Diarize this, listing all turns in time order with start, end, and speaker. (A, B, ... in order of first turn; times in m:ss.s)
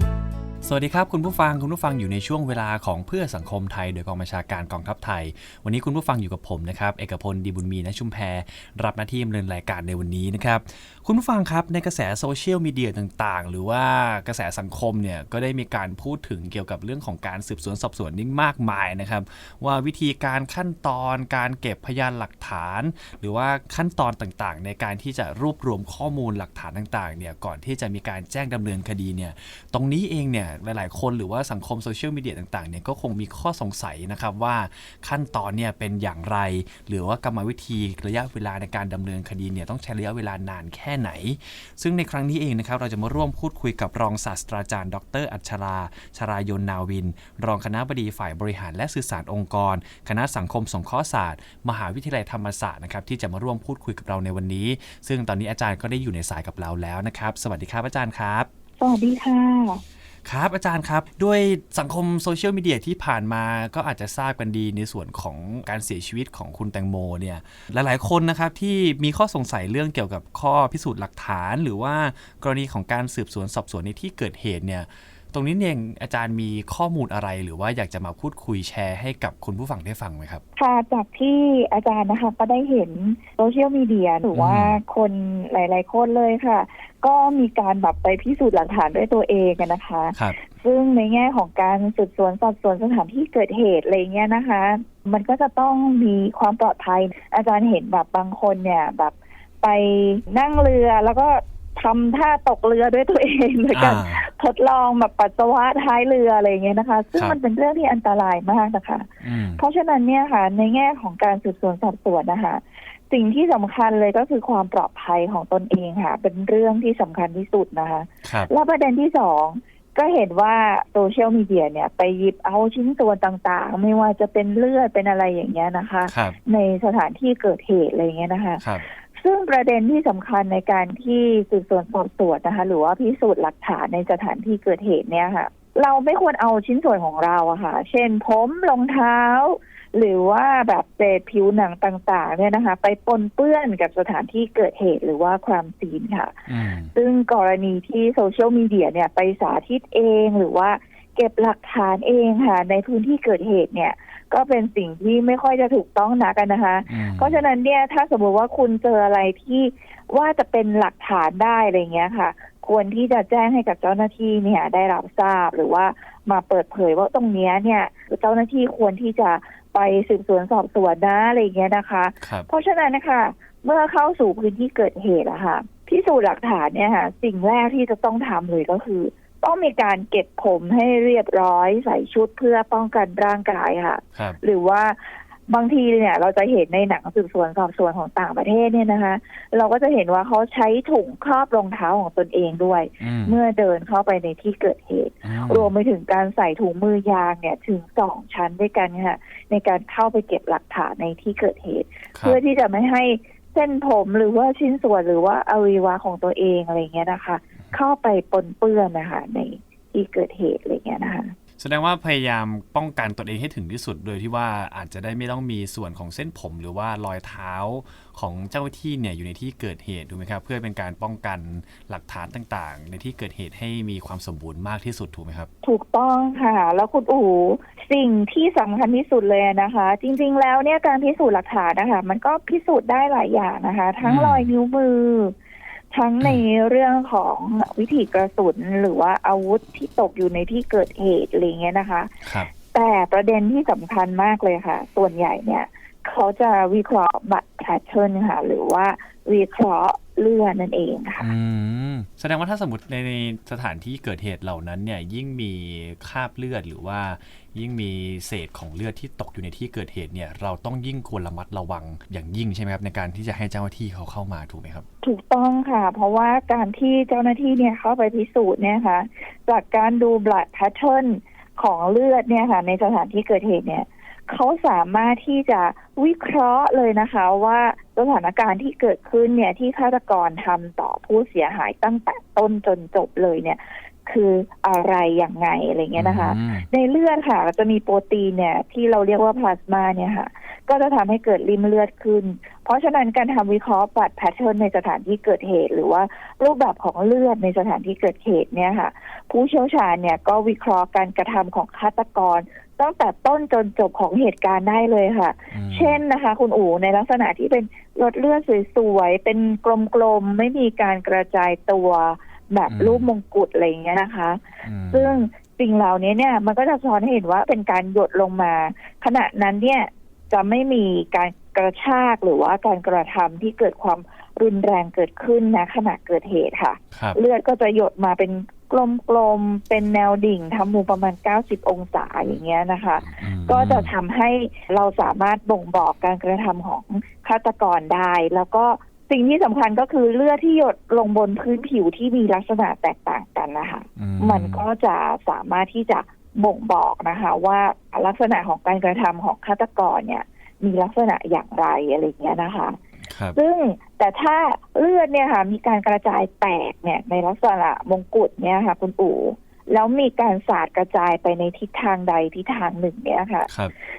0:00.6-0:58.5 A
0:58.8-0:59.8 B
1:00.2-1:20.4 A
1:20.6-2:08.6 B
1:24.3-1:24.8 A
1:43.7-1:44.2 A
1:49.2-1:49.6 A
1:58.2-1:58.5 A
2:06.1-2:06.4 A
2:08.6-2:08.8 A
2:09.2-3:05.0 B
2:26.5-2:26.9 A
2:36.9-2:37.4 A
2:52.2-2:52.5 A
3:05.5-3:31.3 B
3:13.0-3:13.4 A
3:15.2-3:15.7 A
3:31.6-3:45.5 A
3:45.6-3:55.3 B
3:54.0-3:54.5 A
3:55.9-4:11.3 B
4:02.2-4:02.5 A
4:11.2-4:24.8 A
4:25.0-5:14.4 B
4:46.0-4:46.7 A
5:05.5-5:06.0 A
5:12.7-5:13.1 A
5:14.6-5:15.2 A
5:14.9-5:52.8 B
5:33.0-5:33.9 A
5:44.0-5:44.6 A
5:53.0-5:53.4 A
5:53.3-6:03.5 B
6:03.5-6:03.7 A